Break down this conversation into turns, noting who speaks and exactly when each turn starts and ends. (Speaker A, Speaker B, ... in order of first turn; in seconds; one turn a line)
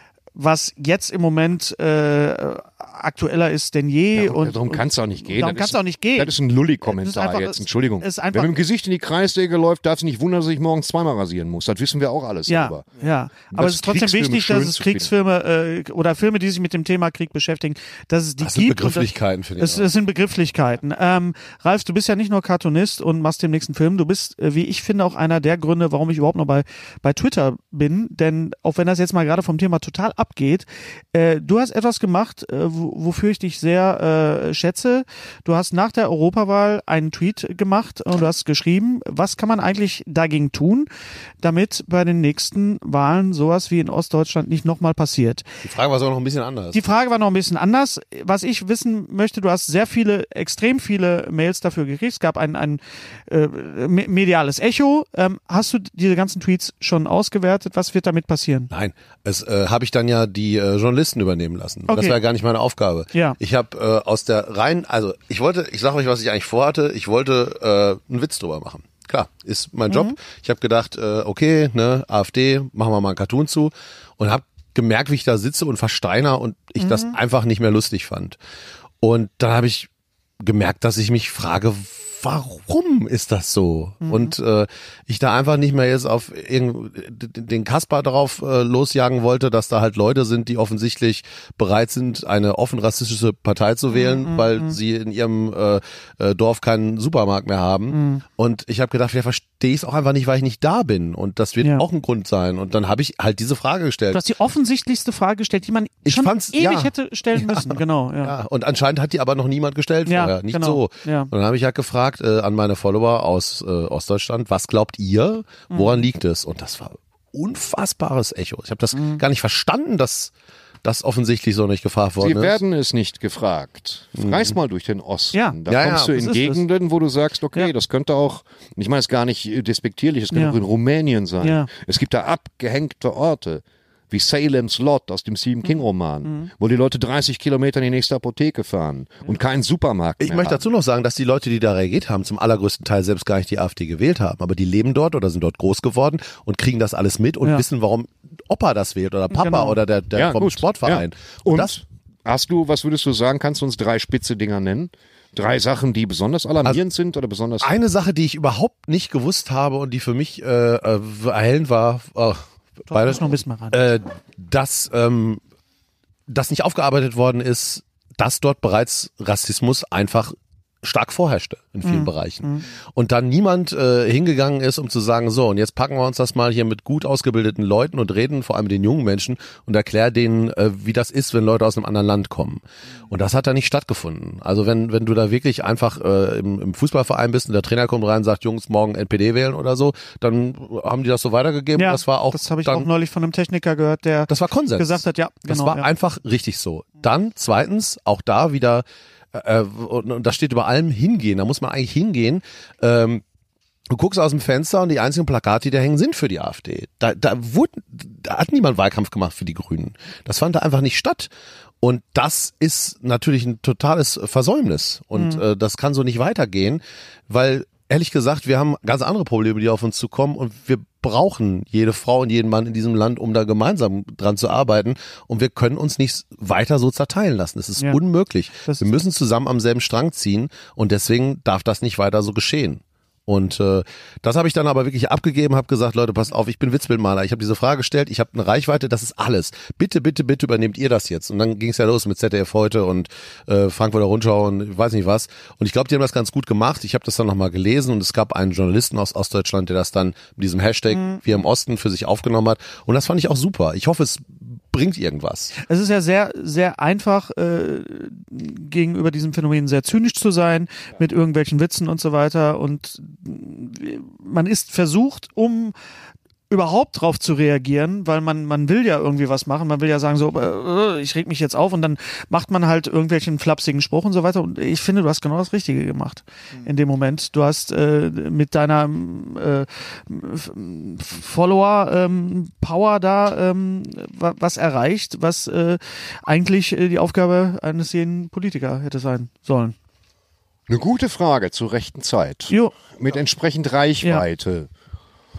Speaker A: 0.3-8.6
Speaker B: 4.1-12.8
Speaker A: 12.5-40.9
Speaker B: 13.5-15.1
Speaker C: 18.4-19.9
Speaker A: 41.4-45.5
Speaker C: 45.6-46.8
Speaker A: 46.7-58.7
Speaker C: 58.7-78.4
Speaker A: 61.9-62.2
Speaker A: 63.1-63.4
Speaker A: 69.9-70.2
Speaker A: 76.8-77.2
Speaker C: 79.0-79.9
Speaker C: 80.4-104.2
Speaker A: 84.0-84.3
Speaker A: 93.9-94.8
Speaker A: 97.9-98.2
Speaker A: 104.1-108.3
Speaker C: 106.0-120.3
Speaker A: 110.0-111.3
Speaker A: 115.7-116.1
Speaker A: 118.9-119.2
Speaker C: 120.8-122.6
Speaker B: 122.2-140.6
Speaker C: 124.2-124.6
Speaker A: 125.3-126.6
Speaker C: 125.7-126.2
Speaker A: 130.3-130.6
Speaker A: 131.4-131.7
Speaker A: 135.6-136.5
Speaker C: 140.2-151.8
Speaker A: 149.3-149.8
Speaker B: 150.2-157.7
Speaker C: 157.6-165.4
Speaker A: 162.9-163.8
Speaker C: 166.3-192.9
Speaker A: 171.8-172.7
Speaker A: 191.8-195.8
Speaker C: 194.3-203.2
Speaker C: 203.9-211.3
Speaker C: 211.8-255.6
Speaker A: 215.2-215.4
Speaker A: 228.6-228.9
Speaker A: 250.9-251.2
Speaker A: 255.6-265.7
Speaker A: 266.5-289.7
Speaker B: 290.7-294.7
Speaker A: 292.5-292.7